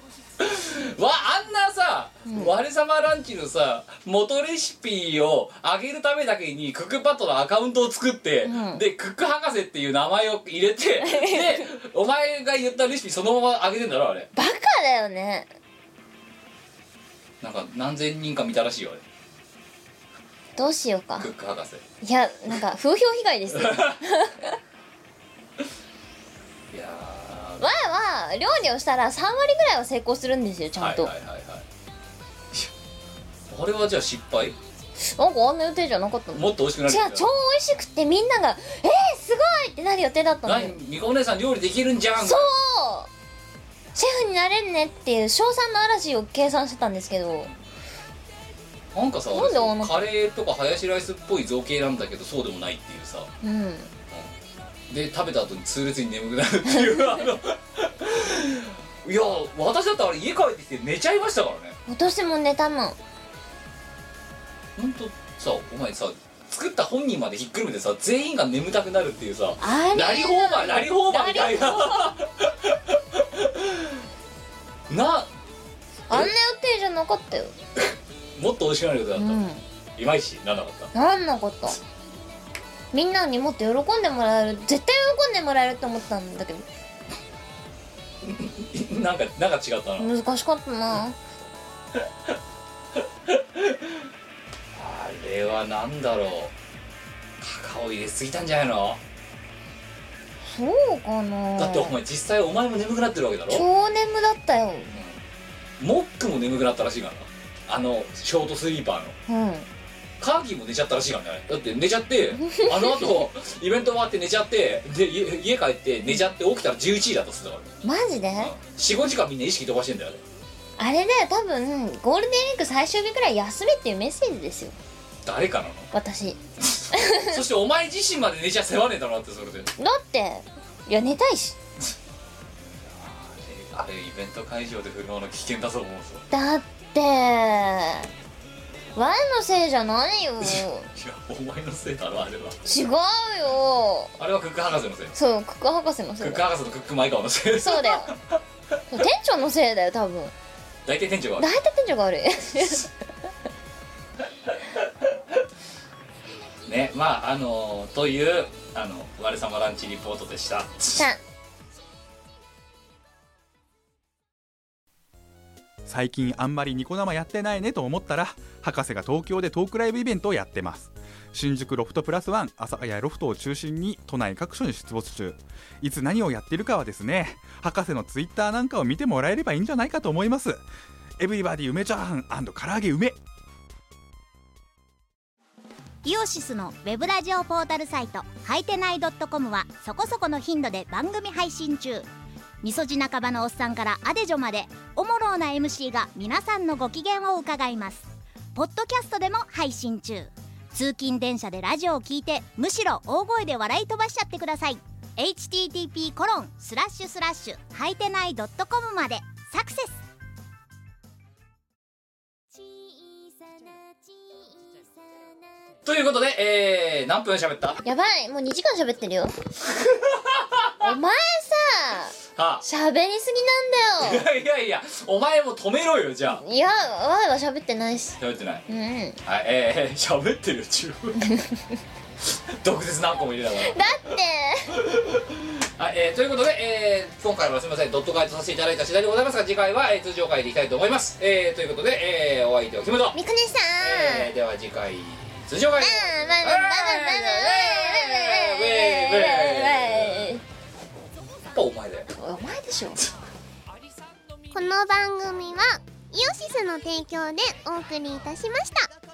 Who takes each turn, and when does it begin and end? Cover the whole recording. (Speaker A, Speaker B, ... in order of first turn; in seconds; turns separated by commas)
Speaker A: 0.4-14.3, Speaker B: 2.3-2.5, Speaker B: 8.4-8.8, Speaker B: 11.0-11.7, Speaker B: 14.3-15.5, Speaker A: 17.4-19.0, Speaker B: 20.6-21.3, Speaker A: 21.2-21.8, Speaker B: 22.0-24.6, Speaker A: 23.6-24.0, Speaker A: 26.7-27.6, Speaker B: 27.6-31.1, Speaker A: 30.8-31.6, Speaker A: 33.5-34.5, Speaker B: 35.1-40.8, Speaker A: 36.3-37.2, Speaker A: 40.5-42.5, Speaker B: 42.2-43.1, Speaker B: 43.9-47.5, Speaker A: 48.9-53.3, Speaker B: 49.3-50.1, Speaker B: 53.4-53.9, Speaker A: 54.9-61.8, Speaker B: 56.7-57.1, Speaker B: 61.9-63.0, Speaker A: 64.8-74.0, Speaker B: 69.6-72.1, Speaker A: 74.9-75.3, Speaker B: 76.1-77.5, Speaker A: 77.8-79.4, Speaker B: 79.2-79.6, Speaker A: 80.0-80.9, Speaker B: 80.9-81.8, Speaker B: 82.9-86.6, Speaker A: 88.2-90.1, Speaker B: 90.0-91.2, Speaker A: 93.3-94.1, Speaker A: 94.7-96.5, Speaker A: 97.4-99.0, Speaker B: 100.4-101.9, Speaker A: 101.6-103.6, Speaker B: 103.5-105.0, Speaker A: 105.8-109.2, Speaker B: 109.3-109.7, Speaker A: 110.2-117.7, Speaker B: 112.4-113.2, Speaker B: 117.8-118.5, Speaker A: 118.4-120.2, Speaker B: 120.8-124.8, Speaker A: 125.2-125.9, Speaker B: 125.9-126.4, Speaker A: 126.7-129.7, Speaker B: 126.9-127.4, Speaker B: 129.8-131.6, Speaker A: 132.8-136.2, Speaker B: 136.3-138.1, Speaker B: 138.9-140.9, Speaker A: 140.4-142.6, Speaker B: 142.6-144.1, Speaker A: 144.2-145.2, Speaker B: 145.1-146.4, Speaker A: 146.2-148.2, Speaker B: 147.6-148.1, Speaker B: 148.9-150.3, Speaker A: 150.8-151.5, Speaker B: 151.4-152.9, Speaker A: 156.7-161.1, Speaker C: 165.8-180.6, Speaker C: 181.2-183.2, Speaker D: 186.0-192.1, Speaker D: 192.6-210.0, Speaker A: 215.8-217.8, Speaker B: 217.8-219.3, Speaker A: 219.6-220.9, Speaker B: 220.8-224.2, Speaker A: 222.3-222.6, Speaker A: 224.0-226.4, Speaker B: 226.4-229.2, Speaker A: 228.2-228.7, Speaker A: 229.2-231.3, Speaker B: 231.2-231.5, Speaker A: 232.6-234.1, Speaker B: 233.6-234.8, Speaker A: 234.7-243.2, Speaker B: 243.1-244.3, Speaker A: 243.8-250.4, Speaker B: 245.8-250.4, Speaker A: 251.5-252.1, Speaker B: 252.1-253.0, Speaker E: 254.5-258.9